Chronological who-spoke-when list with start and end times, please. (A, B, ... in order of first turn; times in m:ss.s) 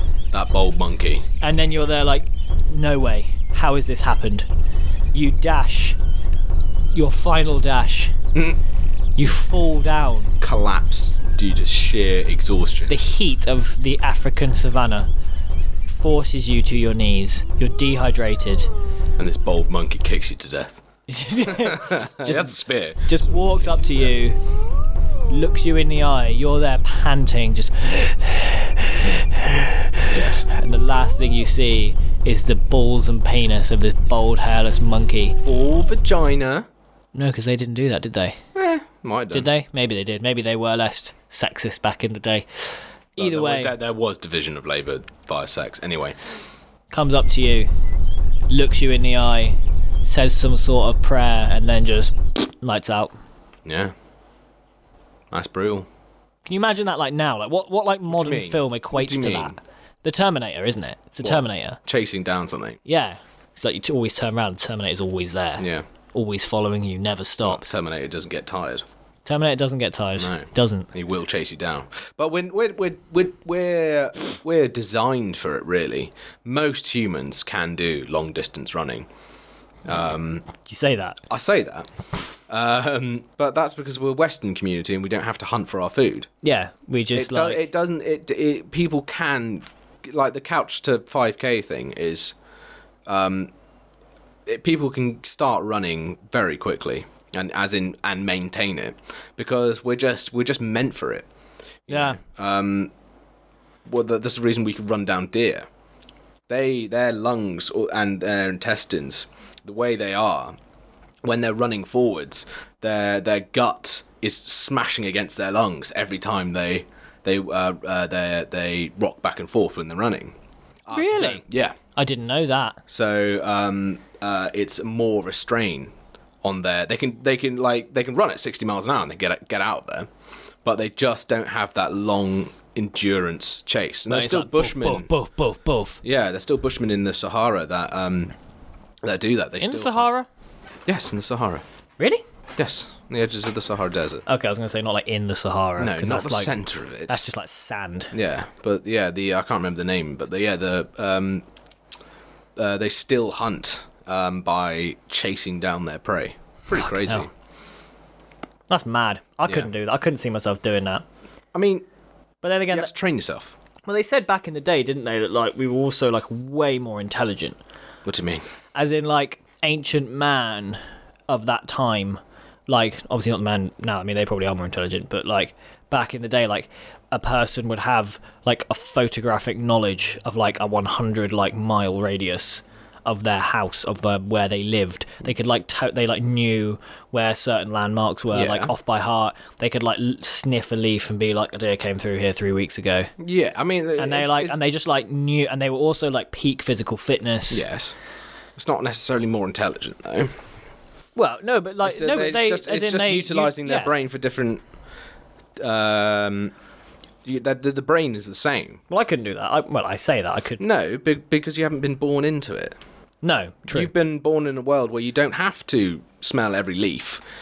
0:00.3-0:01.3 A
0:01.4-0:04.5 B
0:05.1-0:06.0 B
0:06.9-0:08.2 B
0:09.2-0:10.4 B
0:10.4-0:13.0 A
0:12.9-0:15.1 B
0:15.9-0:18.7 B
0:19.2-0:20.8 A
0:21.1-0:24.4 B
0:21.4-0:24.1 A
0:25.3-0:35.4 B
0:30.1-0:30.5 A
0:35.4-0:36.7 A
0:37.1-0:38.4 B
0:38.5-0:39.5 A
0:39.3-0:42.6 B
0:43.2-0:43.8 B
0:43.2-0:46.2 A
0:46.9-0:47.7 B
0:48.5-0:53.1 B
0:53.6-0:53.9 A
0:55.3-0:55.9 A
0:56.4-1:01.8 B
0:58.1-0:59.6 A
1:01.2-1:02.8 A
1:02.8-1:07.7 B
1:05.6-1:05.8 A
1:07.4-1:08.8 A
1:09.2-1:10.9 B
1:10.2-1:19.1 A
1:19.8-1:20.4 A
1:20.6-1:21.2 B
1:21.3-1:21.9 A
1:22.5-1:26.3 A
1:26.4-1:27.7 B
1:27.1-1:32.4 A
1:33.0-1:33.5 A
1:34.4-1:41.3 A
1:41.9-1:42.9 A
1:41.9-1:42.2 B
1:43.9-1:45.6 A
1:46.5-1:50.5 A
1:51.2-2:01.8 A
2:00.9-2:01.4 B
2:02.0-2:02.8 B
2:02.9-2:10.1 A
2:10.6-2:15.1 A
2:14.1-2:16.0 B
2:16.0-2:18.4 A
2:19.0-2:20.1 A
2:19.6-2:20.3 B
2:20.9-2:21.6 A
2:22.6-2:24.2 A
2:24.2-2:26.5 B
2:25.8-2:27.2 A
2:27.1-2:28.1 B
2:28.1-2:31.4 A
2:32.6-2:37.3 A
2:36.8-2:37.3 B
2:38.7-2:41.0 B
2:41.5-2:41.8 A
2:42.4-2:42.9 B
2:42.7-2:43.6 A
2:43.9-2:47.6 B
2:48.0-2:48.4 A
2:48.8-3:13.1 B
3:08.3-3:08.7 A
3:13.2-3:14.6 A
3:14.0-3:17.7 B
3:17.5-3:18.0 A
3:18.6-3:20.3 A
3:21.2-3:23.9 B
3:21.8-3:24.6 A
3:25.6-3:26.5 A
3:27.2-3:28.8 A
3:28.9-3:30.6 B
3:30.6-3:32.8 A
3:33.2-3:33.9 B
3:33.7-3:37.2 A